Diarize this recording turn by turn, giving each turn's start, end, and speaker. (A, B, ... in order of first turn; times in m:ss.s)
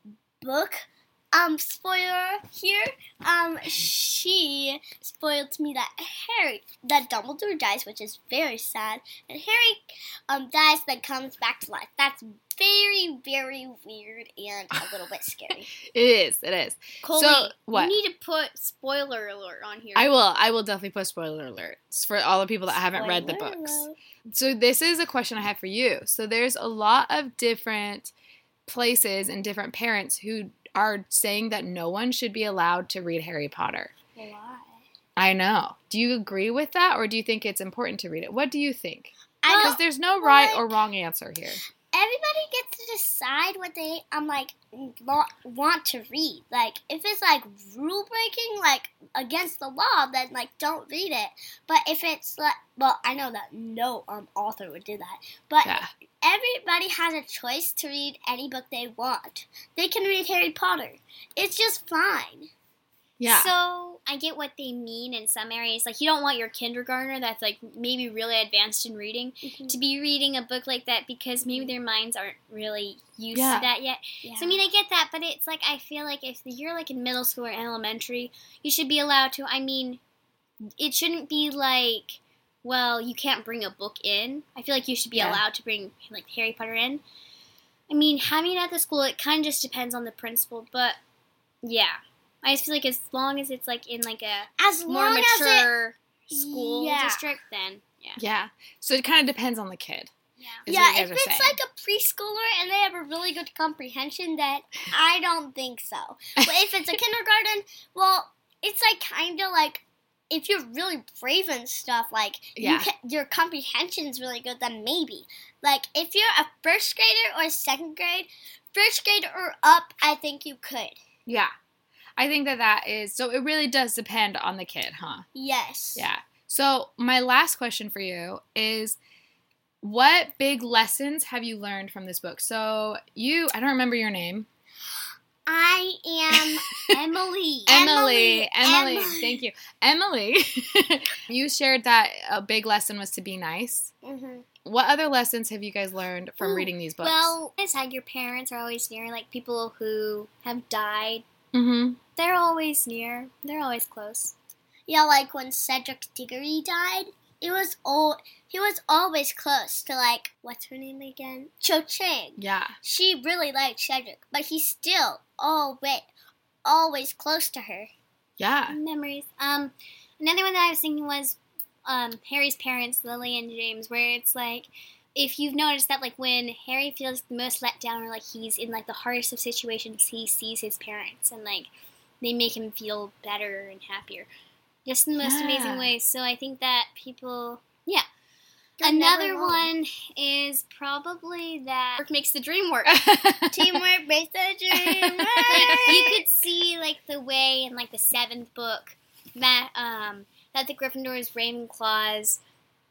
0:00.4-0:15.7 A
0:15.9-0:18.0 B
0:17.0-0:20.1 C
0:19.9-0:28.1 B
0:22.9-0:24.0 A
0:28.6-0:33.9 B
0:34.2-0:34.8 A
0:35.2-0:41.6 B
0:39.4-0:40.8 A
0:39.5-0:39.8 C
0:41.9-1:02.5 A
0:55.6-0:55.9 B
1:03.2-1:03.5 B
1:03.2-1:20.0 C
1:09.4-1:09.8 A
1:13.3-1:13.7 B
1:14.2-1:14.6 A
1:20.8-1:27.0 C
1:25.1-1:25.4 B
1:27.9-1:31.0 C
1:31.6-1:38.2 C
1:34.6-1:35.7 A
1:36.3-1:37.3 A
1:38.2-1:40.1 B
1:40.4-1:40.6 C
1:40.6-1:41.6 B
1:40.7-2:01.0 A
1:52.6-1:52.9 B
2:01.2-2:01.5 B
2:02.2-2:05.2 B
2:05.3-2:06.1 A
2:06.0-2:09.0 B
2:09.8-2:14.5 B
2:15.5-2:16.6 A
2:16.3-2:16.7 B
2:16.9-2:17.8 C
2:17.7-2:23.9 B
2:17.7-2:19.4 A
2:24.0-2:24.4 A
2:24.6-2:27.4 B
2:26.4-2:31.2 C
2:31.5-2:32.0 B
2:32.2-2:34.3 C
2:34.9-2:46.1 A
2:42.4-2:42.8 B
2:46.6-2:47.9 A
2:48.4-2:48.8 B
2:48.7-3:01.7 C
3:02.2-3:04.3 C
3:04.8-3:08.0 C
3:05.2-3:05.9 B
3:08.8-3:09.7 A
3:08.8-3:13.0 C
3:12.9-3:13.8 B
3:13.5-3:16.2 A
3:14.7-3:16.0 B
3:15.5-3:22.4 C